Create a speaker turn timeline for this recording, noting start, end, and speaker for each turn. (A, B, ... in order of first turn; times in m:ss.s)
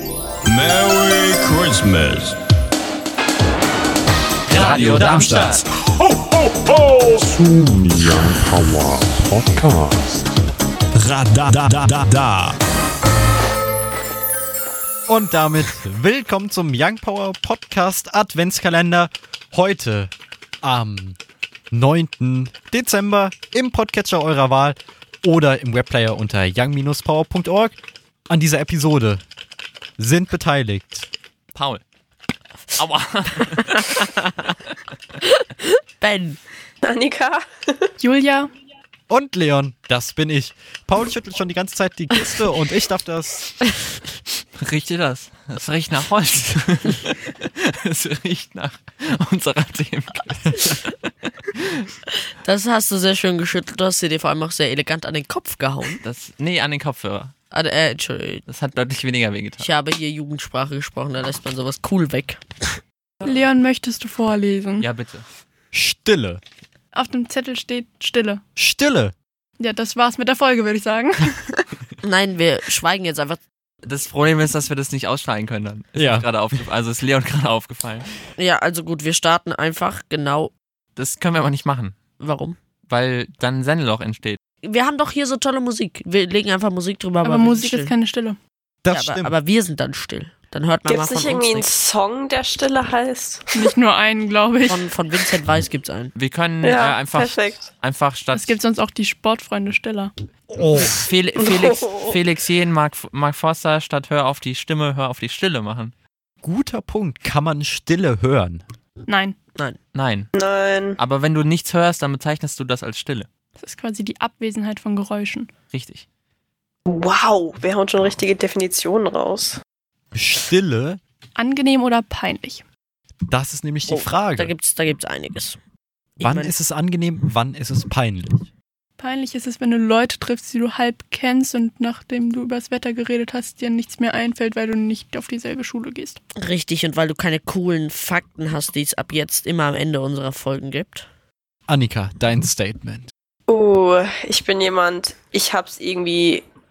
0:00.4-0:02.4 A
0:04.5-0:05.6 B
0:04.8-0:05.4 A
0:04.8-0:05.6 C
0:06.8-0:08.3 A
0:11.0-0:12.6 A
0:15.1-0:20.1 C
0:20.6-0:21.2 C
0:21.7-0:27.8 C
0:28.3-0:29.2 C
0:30.0-0:31.1 C
0:31.5-0:31.8 B
0:32.8-0:34.2 B
0:36.0-0:36.4 D
0:36.8-0:37.9 E
0:38.0-0:38.5 F
0:39.1-0:43.5 C
0:44.6-0:50.9 B
0:52.4-0:56.0 D
0:56.0-0:57.3 B
0:57.5-0:58.4 D
0:58.5-0:59.7 B
0:59.6-1:02.8 D
1:03.2-1:04.9 F
1:04.8-1:05.3 B
1:05.7-1:06.4 C
1:06.9-1:08.4 F
1:08.6-1:09.1 C
1:09.6-1:11.7 F
1:12.0-1:13.4 D
1:13.8-1:18.1 B
1:16.0-1:16.3 C
1:18.4-1:20.5 D
1:21.0-1:22.0 B
1:22.2-1:22.6 D
1:22.9-1:24.4 B
1:24.6-1:27.9 D
1:27.2-1:28.4 F
1:28.8-1:29.3 C
1:28.9-1:31.7 D
1:30.9-1:33.7 E
1:33.5-1:34.9 F
1:34.6-1:36.1 D
1:36.2-1:38.6 B
1:36.6-1:37.7 E
1:38.3-1:40.1 F
1:40.7-1:45.9 B
1:41.4-1:42.2 E
1:46.4-1:48.6 C
1:49.1-1:49.4 F
1:49.9-1:50.3 B
1:50.4-1:51.0 E
1:51.0-1:53.3 B
1:53.6-1:55.5 F
1:55.7-1:56.0 B
1:56.9-1:59.6 E
2:00.1-2:01.0 C
2:01.4-2:02.6 F
2:03.3-2:04.5 C
2:03.9-2:05.6 D
2:06.2-2:06.5 D
2:06.2-2:08.5 C
2:09.0-2:16.2 F
2:16.4-2:21.1 D
2:21.7-2:23.1 C
2:23.5-2:26.5 E